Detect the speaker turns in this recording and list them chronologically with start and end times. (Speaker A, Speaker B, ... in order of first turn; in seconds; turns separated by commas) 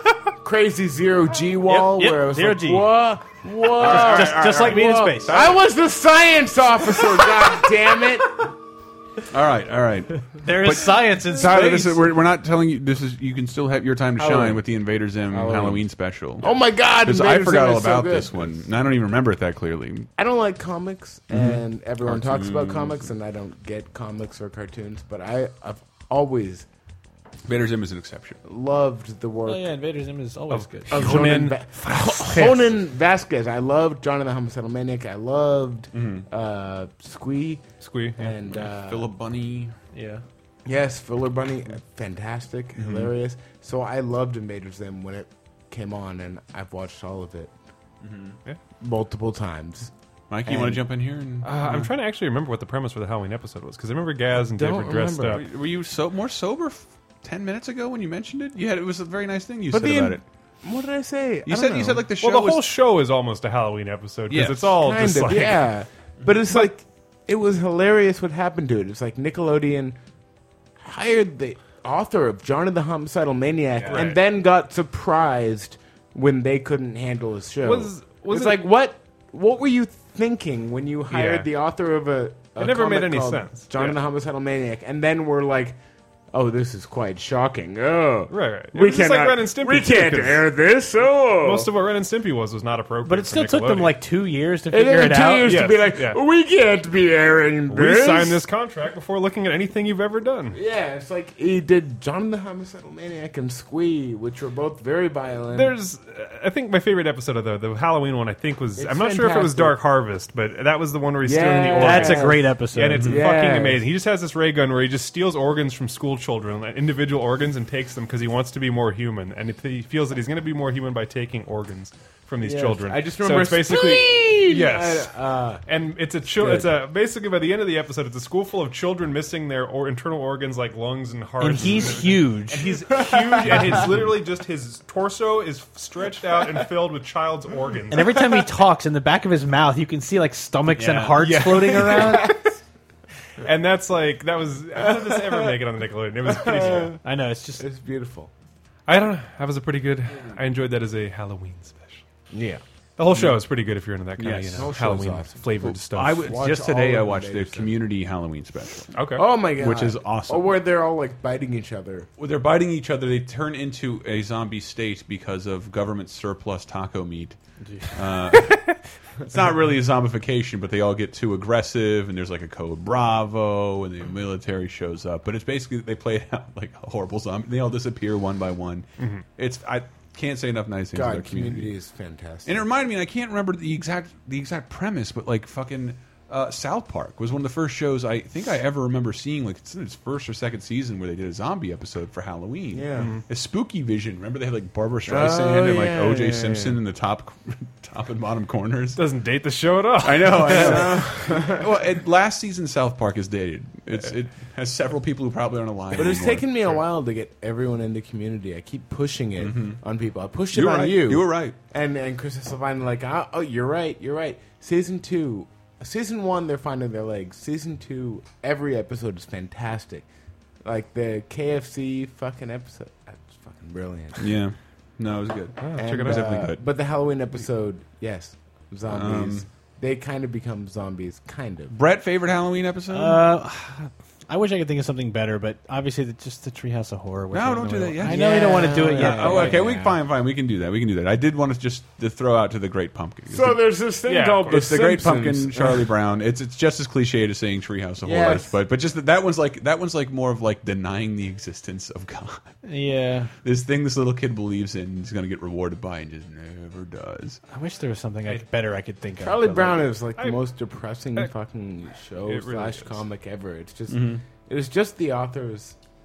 Speaker A: 0.4-8.5, Speaker B: 1.6-2.9, Speaker C: 3.8-5.6, Speaker B: 3.8-5.4, Speaker C: 9.3-20.1, Speaker B: 10.4-12.1, Speaker A: 14.2-14.6, Speaker A: 15.3-15.9, Speaker A: 16.4-18.6, Speaker A: 20.2-26.6, Speaker C: 21.3-23.1, Speaker C: 27.5-28.4, Speaker A: 28.4-29.7, Speaker B: 29.4-31.2, Speaker D: 30.5-32.7, Speaker A: 30.9-37.6, Speaker C: 35.9-36.2, Speaker D: 37.8-38.3, Speaker A: 38.2-39.1, Speaker C: 38.5-39.8, Speaker B: 39.9-40.2, Speaker A: 40.6-47.5, Speaker C: 42.8-43.1, Speaker C: 48.0-48.4, Speaker A: 48.8-49.9, Speaker C: 50.3-51.9, Speaker A: 50.4-50.8, Speaker D: 51.4-55.4, Speaker A: 54.3-55.4, Speaker C: 55.3-60.2, Speaker A: 59.7-62.0, Speaker C: 61.5-62.7, Speaker D: 62.2-65.7, Speaker C: 64.3-64.8, Speaker A: 64.8-70.0, Speaker A: 70.8-85.8, Speaker C: 73.7-74.1, Speaker D: 73.9-74.2, Speaker D: 77.6-78.6, Speaker D: 81.1-81.5, Speaker D: 82.5-84.0, Speaker A: 86.3-91.7, Speaker D: 88.3-90.5, Speaker D: 91.4-94.0, Speaker B: 93.0-95.5, Speaker A: 94.7-98.4, Speaker D: 95.5-96.2, Speaker D: 97.7-100.6, Speaker A: 100.5-105.7, Speaker D: 105.5-125.1, Speaker A: 108.8-109.8, Speaker A: 111.2-113.8, Speaker B: 111.7-113.1, Speaker A: 122.4-125.6, Speaker D: 125.7-138.1, Speaker A: 126.3-126.7, Speaker B: 131.4-132.7, Speaker A: 132.6-134.0, Speaker B: 137.9-142.3, Speaker C: 140.7-141.3, Speaker D: 141.2-142.4, Speaker A: 141.9-142.5, Speaker D: 143.4-147.0, Speaker A: 144.8-145.4, Speaker A: 146.2-147.0, Speaker B: 147.0-147.6, Speaker A: 147.6-148.3, Speaker D: 148.9-152.0, Speaker A: 152.3-152.6, Speaker D: 153.0-156.4, Speaker C: 154.2-154.7, Speaker A: 154.6-157.7, Speaker C: 155.7-158.9, Speaker D: 158.9-159.3, Speaker A: 159.1-162.1, Speaker C: 159.5-160.6, Speaker C: 162.2-167.4, Speaker B: 167.6-168.0, Speaker C: 167.9-181.7, Speaker D: 179.0-179.2, Speaker A: 180.9-182.6, Speaker C: 182.4-199.0, Speaker A: 192.7-193.1, Speaker D: 193.0-193.2, Speaker A: 195.1-196.8, Speaker D: 198.9-201.4, Speaker C: 200.0-206.8, Speaker A: 200.4-201.6, Speaker A: 205.9-220.1, Speaker C: 209.4-209.8, Speaker C: 210.5-211.6, Speaker A: 220.6-224.4, Speaker C: 224.2-226.6, Speaker D: 225.6-226.2, Speaker A: 225.8-231.7, Speaker C: 228.9-229.4, Speaker C: 231.7-233.2, Speaker B: 232.9-239.7, Speaker C: 237.3-243.6, Speaker A: 238.0-239.9, Speaker A: 243.3-245.9, Speaker D: 244.1-244.7, Speaker C: 244.5-252.5, Speaker A: 248.0-248.6, Speaker B: 252.6-253.3, Speaker C: 253.4-257.4, Speaker B: 257.5-259.9, Speaker A: 259.2-265.8, Speaker D: 260.1-260.4, Speaker D: 262.2-263.0, Speaker C: 263.9-264.2